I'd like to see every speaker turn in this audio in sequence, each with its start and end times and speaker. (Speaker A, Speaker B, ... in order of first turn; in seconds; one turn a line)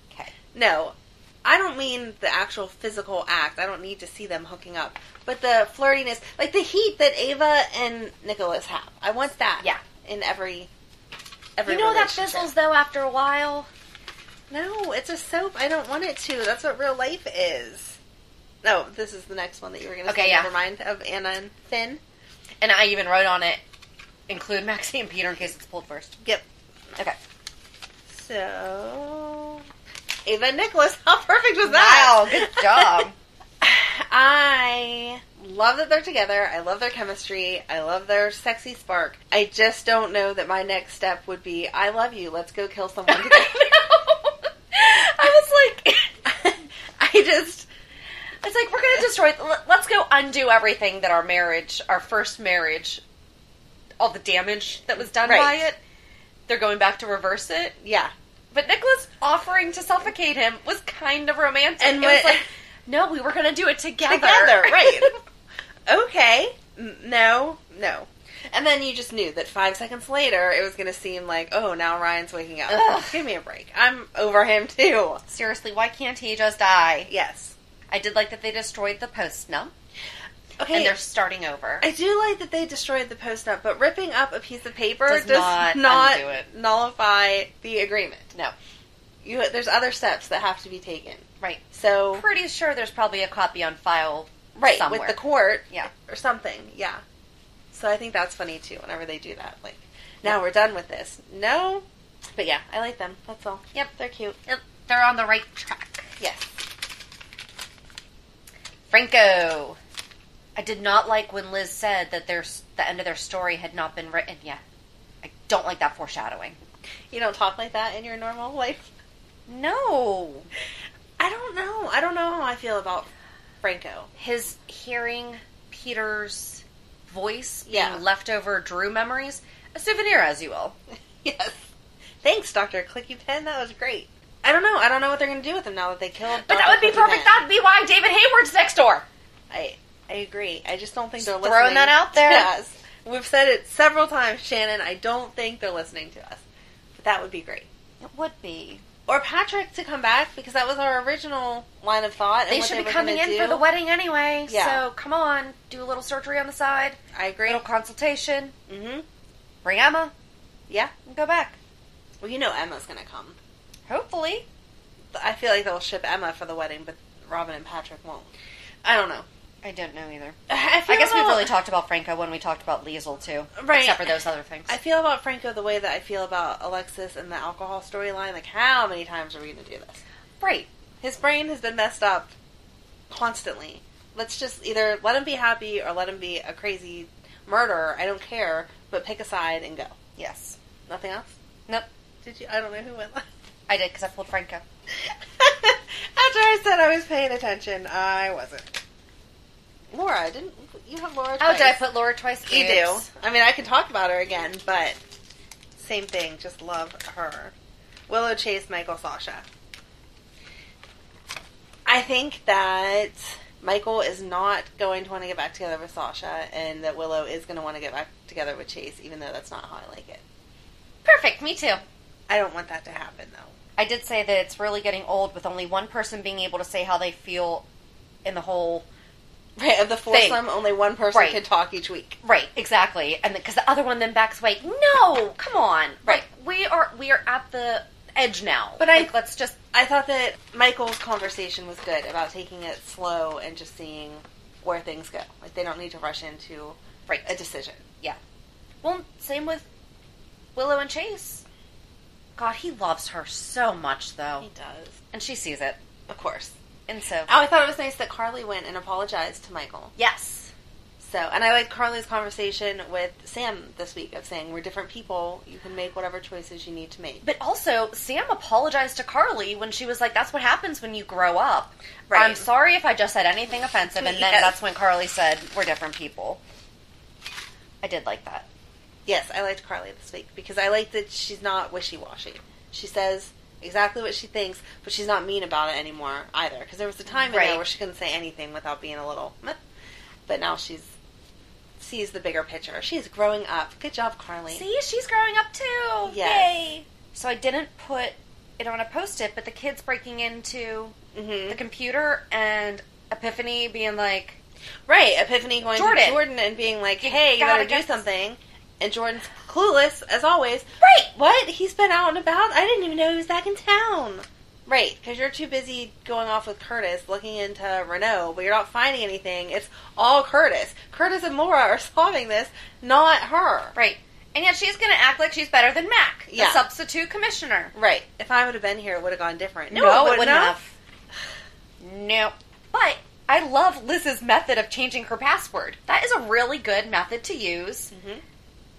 Speaker A: 0.5-10.7
Speaker A: 11.6-12.5
Speaker B: 11.7-13.7
Speaker A: 14.5-18.0
Speaker A: 18.6-22.0
Speaker B: 20.1-20.5
Speaker B: 22.6-23.6
Speaker B: 24.3-26.1
Speaker A: 28.1-29.6
Speaker A: 30.3-33.0
Speaker B: 31.6-33.1
Speaker A: 33.6-43.6
Speaker B: 43.1-46.1
Speaker A: 46.3-47.7
Speaker B: 48.4-53.0
Speaker B: 54.0-55.8
Speaker A: 55.2-55.6
Speaker B: 56.5-57.8
Speaker A: 57.8-58.1
Speaker B: 58.5-65.1
Speaker A: 61.8-62.5
Speaker A: 64.1-65.2
Speaker A: 65.9-75.2
Speaker B: 72.7-73.2
Speaker B: 75.3-77.1
Speaker A: 77.1-77.5
Speaker B: 77.9-79.7
Speaker A: 80.6-81.0
Speaker B: 80.7-81.9
Speaker A: 81.8-88.3
Speaker B: 85.1-86.5
Speaker A: 89.2-92.2
Speaker B: 91.4-95.2
Speaker A: 94.6-97.0
Speaker A: 97.7-104.4
Speaker B: 104.5-106.1
Speaker A: 106.2-106.5
Speaker B: 108.9-109.8
Speaker B: 110.6-114.6
Speaker B: 115.2-116.6
Speaker A: 117.1-118.9
Speaker B: 119.5-120.5
Speaker A: 121.2-123.1
Speaker A: 123.6-124.1
Speaker B: 124.2-130.8
Speaker A: 127.7-128.0
Speaker A: 131.2-131.7
Speaker A: 132.2-137.4
Speaker B: 136.3-139.1
Speaker A: 139.5-146.4
Speaker B: 141.2-142.5
Speaker A: 147.0-147.7
Speaker B: 148.0-148.8
Speaker A: 149.1-153.7
Speaker B: 152.5-158.5
Speaker A: 154.5-154.8
Speaker A: 157.1-157.6
Speaker A: 158.7-159.1
Speaker B: 159.6-160.1
Speaker B: 161.1-161.6
Speaker A: 162.2-163.4
Speaker B: 163.9-164.5
Speaker A: 165.1-168.3
Speaker A: 168.8-169.3
Speaker B: 169.6-174.7
Speaker A: 170.5-171.5
Speaker A: 173.6-174.2
Speaker A: 174.7-180.0
Speaker B: 180.4-180.7
Speaker A: 181.0-182.3
Speaker A: 183.1-189.9
Speaker B: 190.2-190.6
Speaker A: 190.9-191.3
Speaker A: 192.2-193.3
Speaker B: 193.7-194.6
Speaker A: 195.4-198.8
Speaker A: 199.9-201.8
Speaker B: 201.4-203.1
Speaker A: 202.5-205.0
Speaker A: 205.8-207.5
Speaker A: 208.1-209.5
Speaker A: 211.9-220.2
Speaker B: 221.1-221.8
Speaker A: 222.3-223.5
Speaker B: 223.8-227.7
Speaker B: 228.2-228.9
Speaker A: 229.6-232.2
Speaker B: 230.1-230.4
Speaker B: 231.1-231.4
Speaker B: 232.2-239.6
Speaker A: 238.8-239.1
Speaker A: 239.7-247.8
Speaker B: 247.1-247.3
Speaker B: 248.8-249.7
Speaker B: 250.6-251.4
Speaker B: 252.4-254.5
Speaker A: 254.4-255.0
Speaker B: 255.1-255.8
Speaker A: 256.1-256.5
Speaker B: 256.9-257.3
Speaker A: 257.3-259.9
Speaker B: 260.0-260.5
Speaker A: 261.0-267.2
Speaker B: 267.2-276.4
Speaker A: 272.1-272.5
Speaker A: 274.0-274.6
Speaker B: 277.8-278.5
Speaker A: 279.1-289.6
Speaker B: 287.3-287.6
Speaker A: 290.3-290.9
Speaker A: 291.8-294.6
Speaker B: 294.5-301.0
Speaker A: 296.1-296.5
Speaker A: 301.1-301.6
Speaker B: 301.5-304.4
Speaker A: 304.9-323.8
Speaker B: 305.8-306.2
Speaker B: 307.0-308.0
Speaker B: 310.8-311.1
Speaker B: 323.8-327.7
Speaker A: 326.3-326.6
Speaker A: 327.8-330.6
Speaker B: 329.7-330.8
Speaker B: 331.8-337.9
Speaker A: 337.9-338.2